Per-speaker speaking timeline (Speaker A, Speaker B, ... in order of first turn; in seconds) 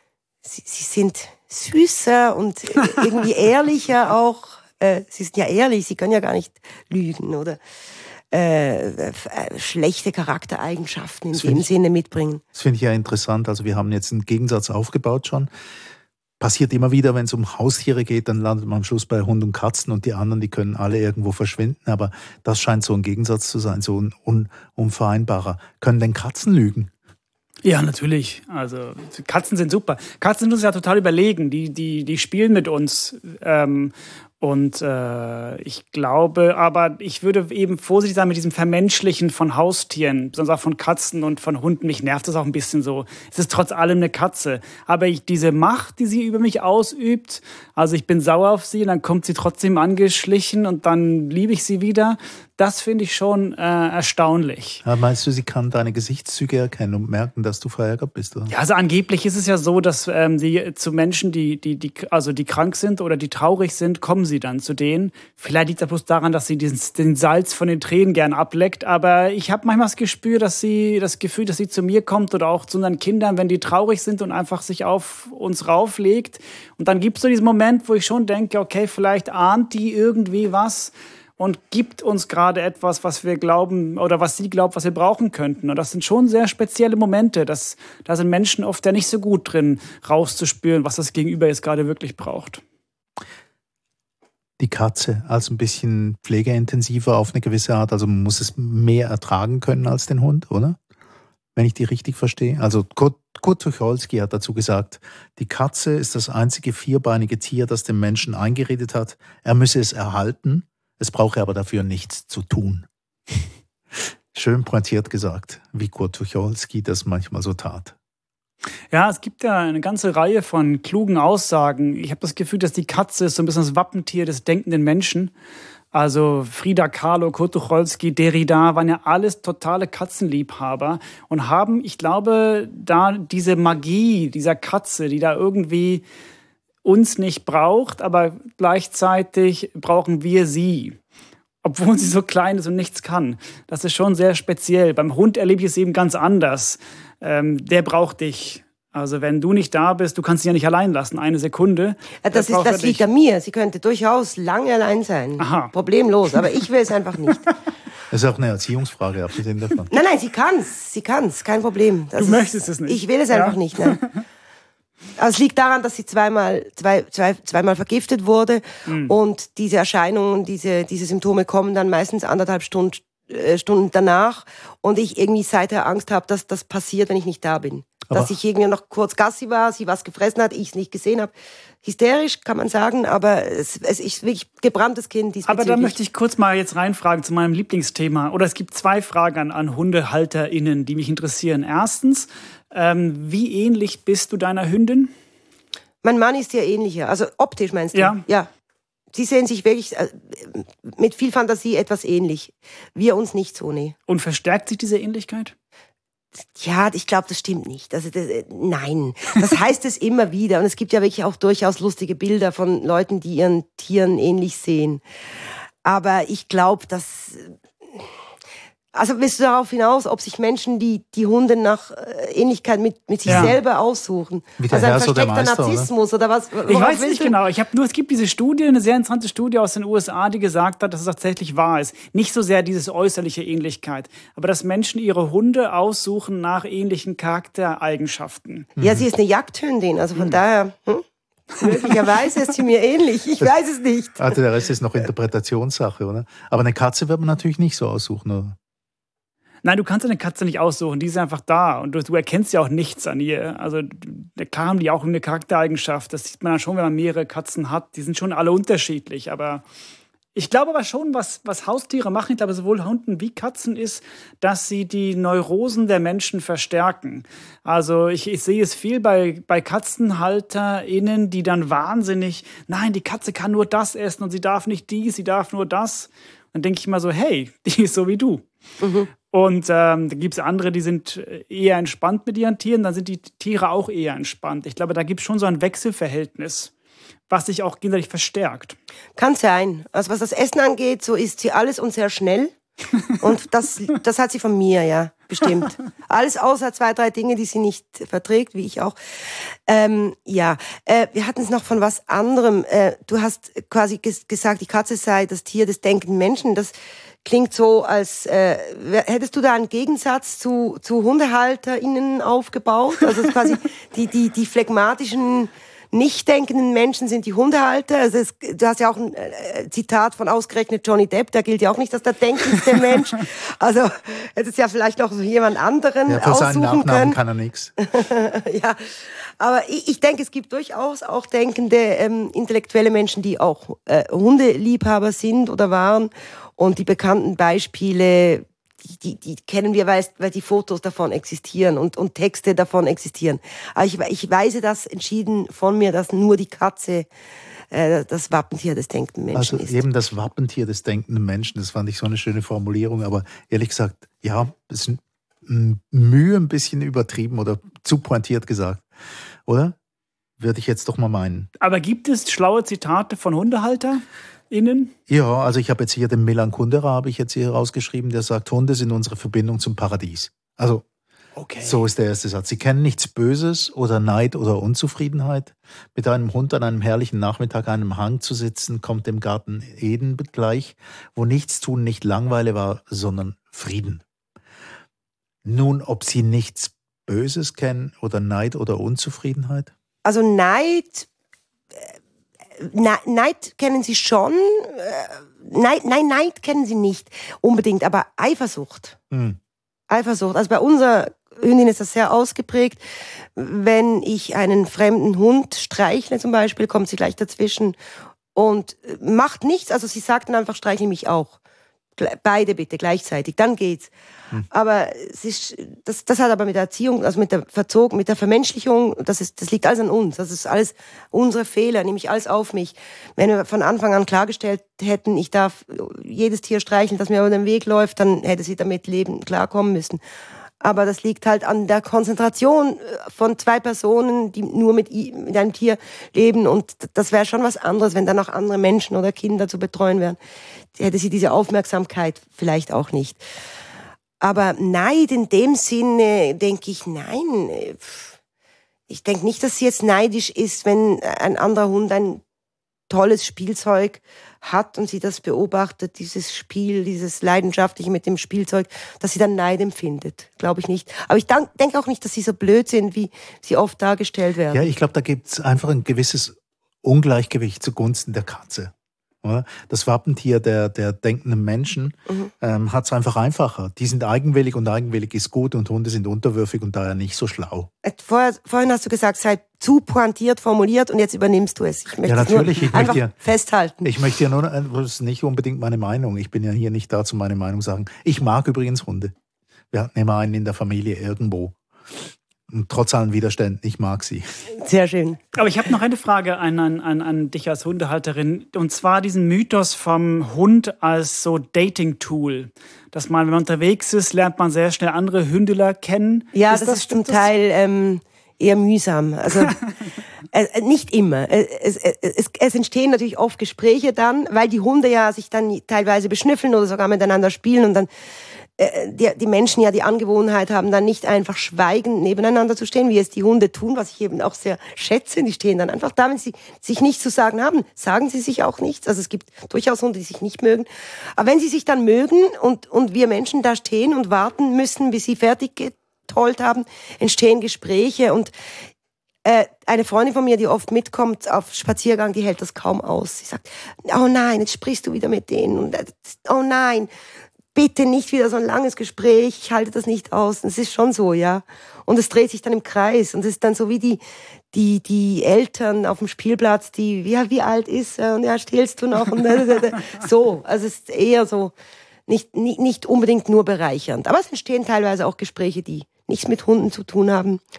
Speaker A: 0.4-7.6, 8.3-12.4, 152.2-157.4, 159.9-164.0, 165.2-181.3, 181.8-185.9, 196.0-198.5, 199.1-203.9, 206.6-215.0, 215.8-218.1, 218.9-227.3, 238.8-241.1, 241.6-244.4, 278.8-279.1, 289.2-292.5, 293.1-306.7, 307.2-327.2, 327.8-328.8, 329.4-347.1, 347.7-349.8, 390.1-391.1, 392.6-399.0, 399.9-402.8, 403.4-407.8, 408.4-411.4, 412.0-413.9, 414.5-430.0, 430.6-440.2, 440.8-443.2, 444.2-448.1, 448.9-452.2, 452.9-464.7, 477.8-483.9, 494.5-495.2, 506.3-509.6, 510.3-517.9, 518.6-538.3, 539.2-546.9, 547.5-554.0, 554.5-561.5, 562.1-567.4
Speaker B: 11.3-11.7, 12.5-15.5, 16.4-26.9, 54.9-58.5, 94.6-100.8, 101.6-112.9, 114.3-118.0, 158.1-159.9, 223.3-223.6, 224.6-225.9, 238.8-239.1, 244.2-248.6, 326.1-327.8, 349.3-358.9, 359.5-359.8, 360.4-361.5, 365.1-370.8, 371.6-384.0, 385.4-389.7, 399.1-399.4, 464.5-477.7, 482.1-483.1, 483.8-489.1, 489.7-491.6, 492.5-494.3
Speaker C: 27.6-54.8, 58.5-92.6, 118.9-125.3, 125.9-136.0, 136.8-141.0, 141.6-153.0, 155.4-155.7, 162.2-164.1, 168.9-169.1, 185.5-195.1, 197.9-198.2, 204.1-205.5, 223.3-223.6, 226.7-238.7, 249.6-259.6, 260.4-278.4, 279.3-286.7, 287.3-288.8, 361.6-364.9, 371.4-371.8, 495.4-507.3